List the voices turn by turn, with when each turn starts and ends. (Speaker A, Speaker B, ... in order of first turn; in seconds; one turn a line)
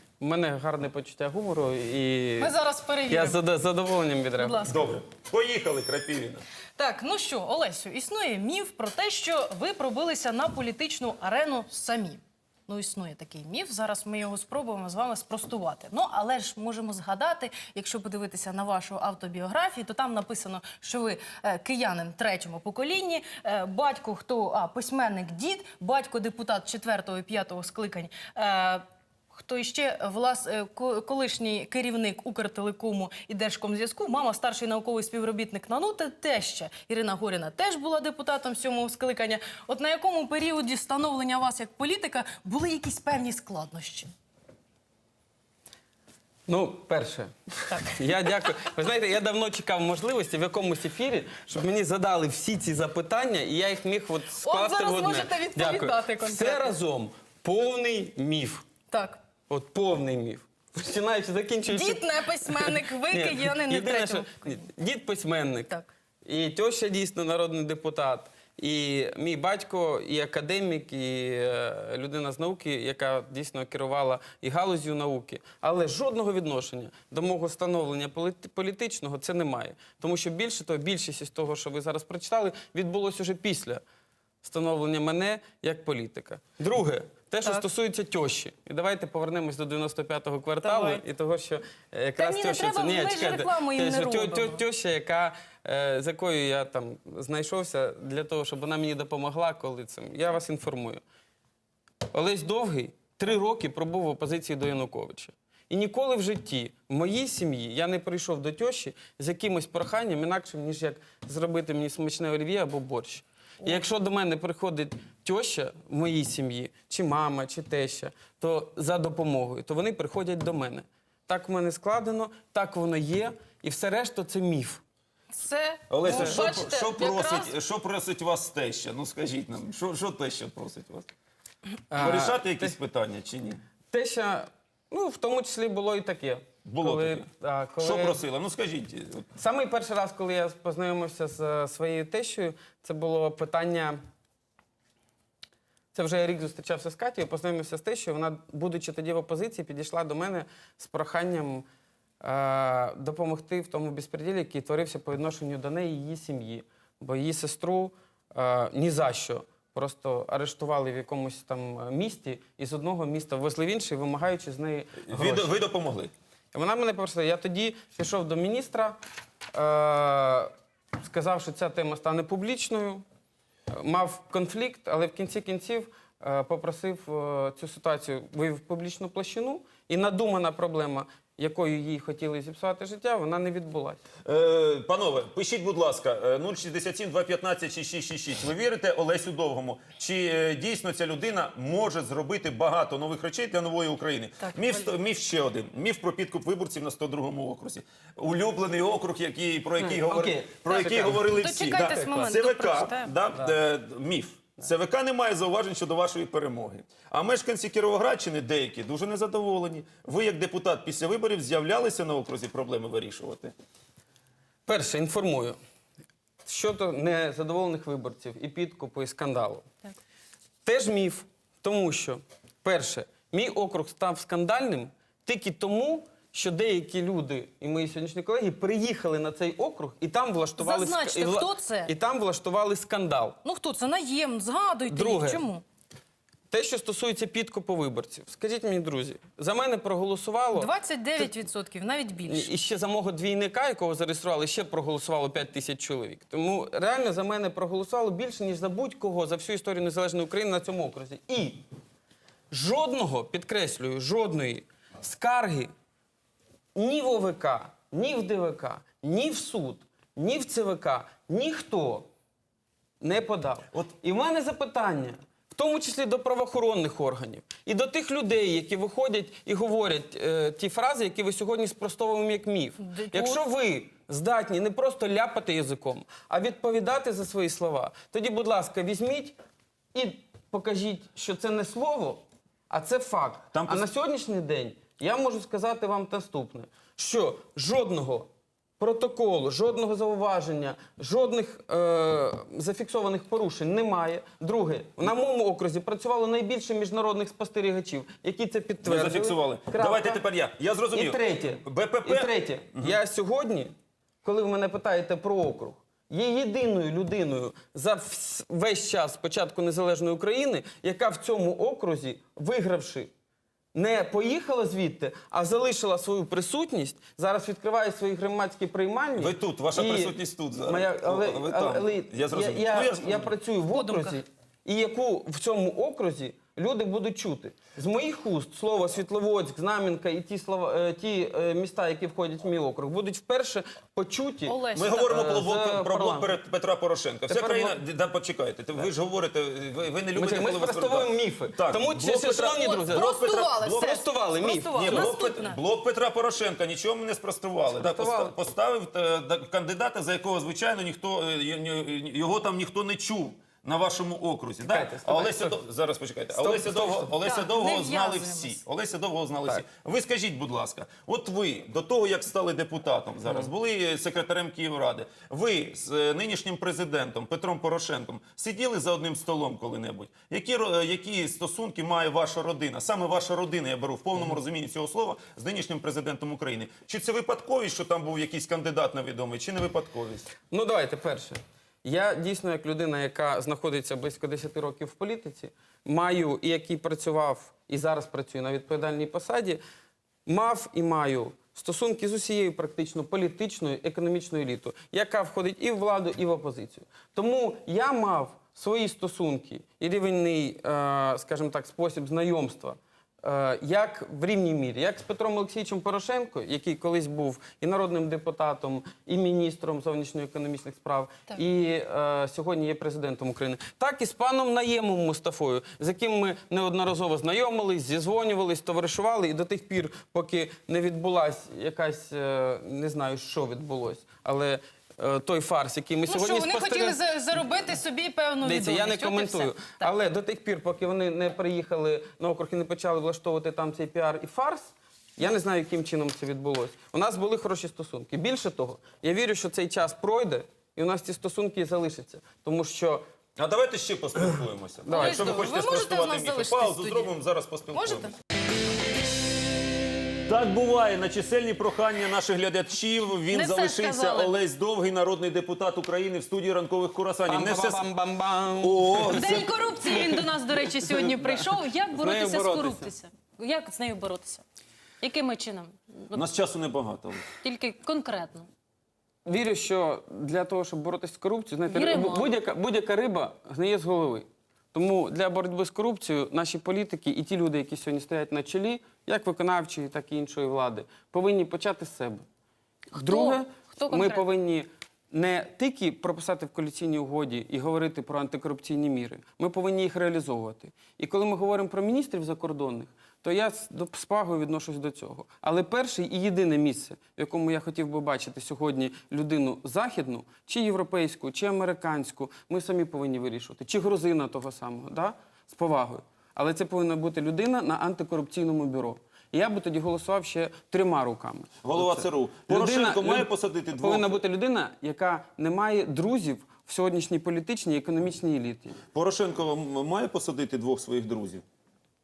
Speaker A: 0.2-2.5
Speaker B: 2.4-3.4
Speaker A: 3.1-4.7
Speaker B: 4.4-4.9
Speaker C: 4.6-6.4
Speaker B: 6.8-44.1
Speaker A: 46.5-58.6
Speaker B: 47.8-48.3
Speaker B: 54.4-56.7
Speaker B: 58.9-59.2
Speaker A: 59.5-65.7
Speaker B: 61.7-64.6
Speaker A: 66.2-83.8
Speaker A: 84.4-101.0
Speaker B: 90.6-91.0
Speaker B: 92.2-94.6
Speaker A: 102.1-124.8
Speaker B: 125.3-127.5
Speaker C: 125.9-131.1
Speaker A: 126.0-126.4
Speaker A: 131.9-132.7
Speaker C: 132.0-133.6
Speaker A: 133.9-138.2
Speaker C: 136.6-137.3
Speaker C: 137.8-139.4
Speaker A: 139.3-144.0
Speaker A: 145.9-151.6
Speaker A: 152.2-165.6
Speaker C: 165.0-166.1
Speaker A: 166.5-169.0
Speaker A: 169.5-173.0
Speaker A: 173.7-184.0
Speaker C: 184.2-213.5
Speaker B: 194.4-194.8
Speaker A: 199.8-201.3
Speaker B: 201.2-203.1
Speaker A: 201.9-202.2
Speaker A: 214.7-215.6
Speaker A: 216.4-219.7
Speaker A: 220.6-233.4
Speaker B: 230.6-231.9
Speaker B: 233.4-235.6
Speaker A: 234.9-235.4
Speaker A: 236.5-241.2
Speaker B: 240.5-242.5
Speaker A: 242.2-251.6
Speaker A: 252.5-255.7
Speaker A: 256.7-262.1
Speaker A: 263.0-279.4
Speaker B: 272.8-273.4
Speaker A: 279.9-300.2
Speaker C: 283.5-283.9
Speaker C: 298.8-303.0
Speaker A: 300.9-303.7
Speaker A: 304.2-313.1
Speaker A: 313.7-336.4
Speaker C: 319.1-323.4
Speaker B: 323.7-324.2
Speaker B: 334.4-335.1
Speaker C: 334.7-344.0
Speaker A: 337.3-337.8
Speaker A: 340.1-343.1
Speaker B: 342.5-345.6
Speaker A: 343.8-345.1
Speaker C: 344.8-380.3
Speaker A: 347.8-348.3
Speaker A: 354.6-355.6
Speaker A: 356.3-357.2
Speaker B: 357.2-358.6
Speaker A: 380.5-389.6
Speaker A: 390.2-427.0
Speaker B: 426.1-429.9
Speaker A: 428.4-443.0
Speaker C: 443.4-448.2
Speaker A: 444.8-445.5
Speaker B: 444.9-447.1
Speaker B: 447.7-448.1
Speaker C: 450.3-457.8
Speaker B: 453.3-454.3
Speaker A: 457.2-462.9
Speaker C: 458.6-460.0
Speaker B: 459.0-464.4
Speaker B: 465.0-466.2
Speaker C: 466.1-467.3
Speaker B: 467.4-468.5
Speaker A: 469.2-482.2
Speaker B: 471.7-472.3
Speaker B: 482.9-484.2
Speaker A: 482.9-518.8
Speaker C: 511.6-514.1
Speaker C: 518.9-521.4